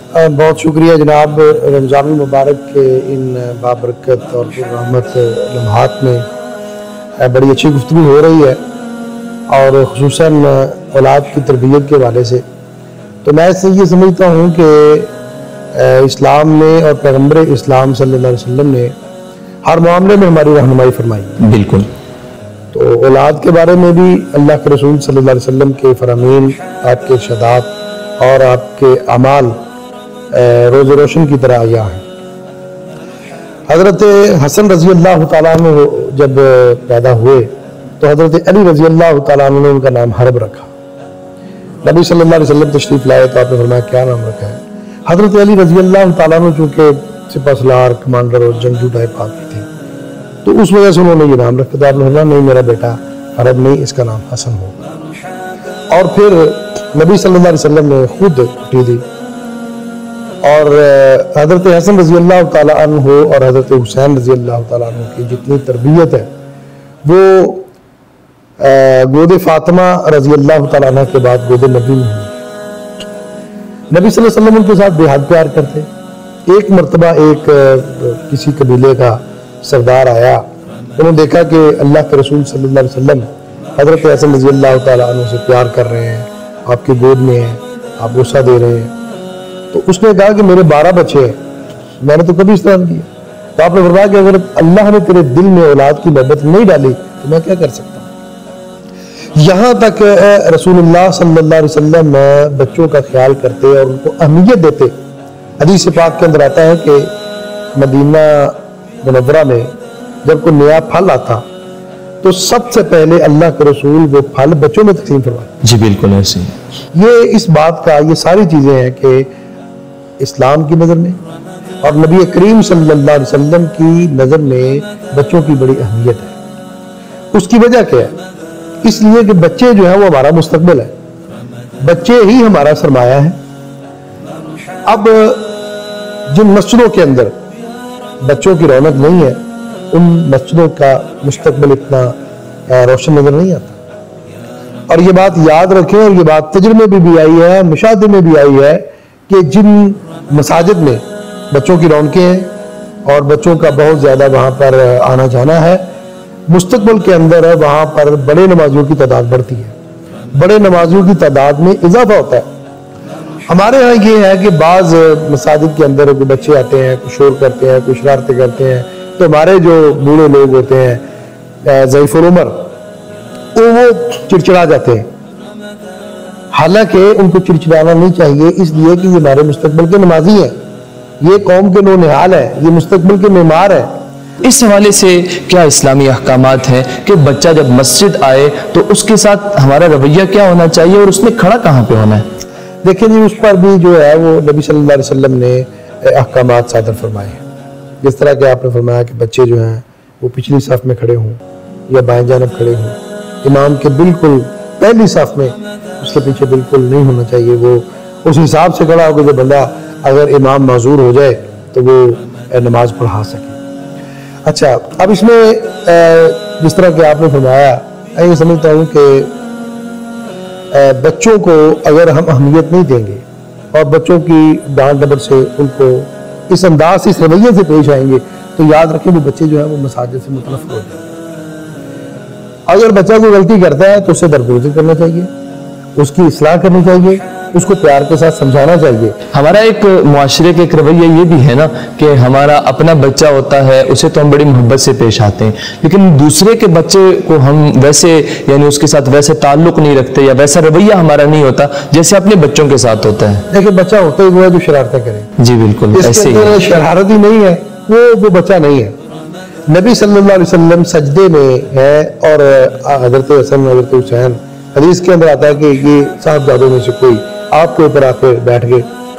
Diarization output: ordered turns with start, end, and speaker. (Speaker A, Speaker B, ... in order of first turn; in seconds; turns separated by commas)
Speaker A: 0.1-6.2, Speaker A: 7.2-8.6, Speaker A: 9.5-12.4, Speaker A: 13.2-15.1, Speaker A: 15.7-18.9, Speaker A: 19.6-21.4, Speaker B: 21.4-21.9, Speaker A: 22.7-29.5, Speaker A: 30.3-32.0, Speaker A: 33.7-40.7, Speaker A: 41.8-49.7, Speaker A: 50.4-54.9, Speaker A: 55.9-59.0, Speaker A: 60.4-66.3, Speaker A: 67.0-67.7, Speaker A: 68.6-72.3, Speaker A: 73.9-75.9, Speaker A: 76.5-80.4, Speaker A: 81.0-88.9, Speaker A: 89.7-91.3, Speaker A: 92.0-98.1, Speaker A: 99.3-104.9, Speaker A: 105.6-107.1, Speaker A: 107.7-109.7, Speaker A: 110.2-111.4, Speaker A: 112.2-115.5, Speaker B: 115.6-116.5, Speaker A: 116.9-119.3, Speaker A: 120.2-121.2, Speaker A: 121.8-126.3, Speaker A: 127.3-128.1, Speaker A: 128.8-130.9, Speaker A: 131.8-133.4, Speaker A: 134.8-135.5, Speaker A: 136.3-137.3, Speaker A: 138.2-139.4, Speaker A: 139.9-142.1, Speaker A: 142.7-143.8, Speaker A: 144.9-152.5, Speaker A: 153.0-155.9, Speaker A: 156.5-159.7, Speaker A: 160.3-162.5, Speaker A: 163.5-171.0, Speaker A: 171.6-172.6, Speaker A: 173.5-175.0, Speaker A: 176.5-180.5, Speaker A: 181.2-183.9, Speaker B: 184.4-192.2, Speaker A: 192.8-197.4, Speaker A: 198.0-213.6, Speaker A: 214.4-219.3, Speaker A: 220.7-231.0, Speaker A: 232.7-235.3, Speaker A: 235.9-239.2, Speaker B: 239.3-253.4, Speaker A: 253.5-255.3, Speaker B: 255.4-256.6, Speaker A: 255.9-258.9, Speaker A: 259.7-268.9